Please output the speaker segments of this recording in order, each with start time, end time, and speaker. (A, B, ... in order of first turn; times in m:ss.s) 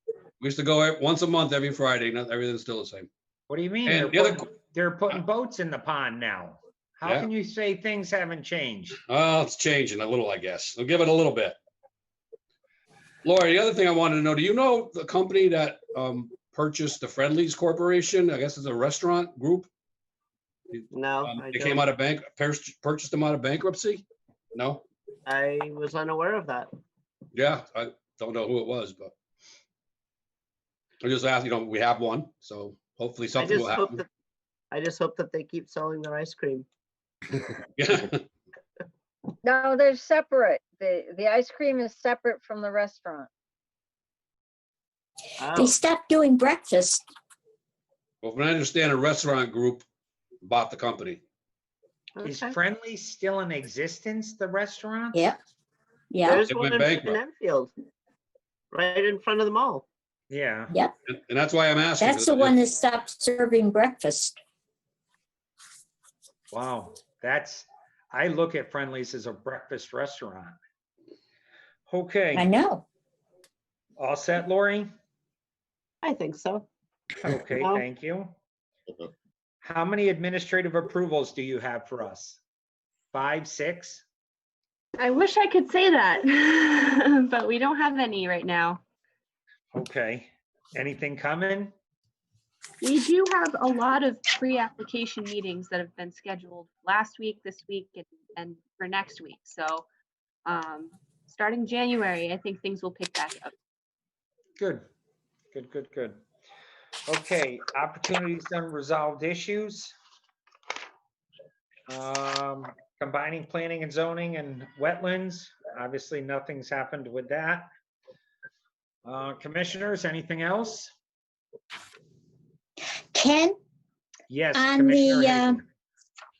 0:00.4-0:03.1 A
0:03.5-0:09.0 B
0:03.8-0:04.5 A
0:07.0-0:07.3 A
0:09.1-0:11.6 A
0:13.2-0:19.7 A
0:20.7-0:24.8 A
0:20.9-0:21.9 C
0:25.2-0:26.7 C
0:27.3-0:29.1 A
0:31.0-0:34.0 A
0:33.4-0:34.1 C
0:34.7-0:36.6 C
0:37.8-0:38.2 A
0:39.4-0:43.3 D
0:45.4-0:45.8 C
0:45.5-0:47.0 E
0:48.2-0:49.8 A
0:50.4-0:51.2 A
0:52.2-0:52.6 C
0:52.2-0:55.3 B
0:56.1-0:56.4 E
0:56.2-0:57.7 C
0:56.4-0:57.2 A
0:58.7-0:59.8 C
1:00.3-1:00.7 B
1:01.1-1:02.6 A
1:02.0-1:04.4 E
1:06.5-1:10.6 B
1:11.9-1:12.5 B
1:12.3-1:12.8 E
1:14.0-1:14.9 B
1:16.0-1:16.7 C
1:17.2-1:18.3 B
1:17.5-1:17.8 C
1:19.6-1:22.4 B
1:23.1-1:24.0 B
1:25.0-1:28.8 F
1:29.7-1:31.7 B
1:32.8-1:39.8 F
1:40.4-1:43.5 F
1:44.6-1:44.8 B
1:45.5-1:46.2 B
1:47.1-1:49.9 B
1:51.9-1:57.7 B
1:59.0-2:00.9 B
2:03.1-2:03.6 E
2:04.3-2:05.6 B
2:04.5-2:05.6 E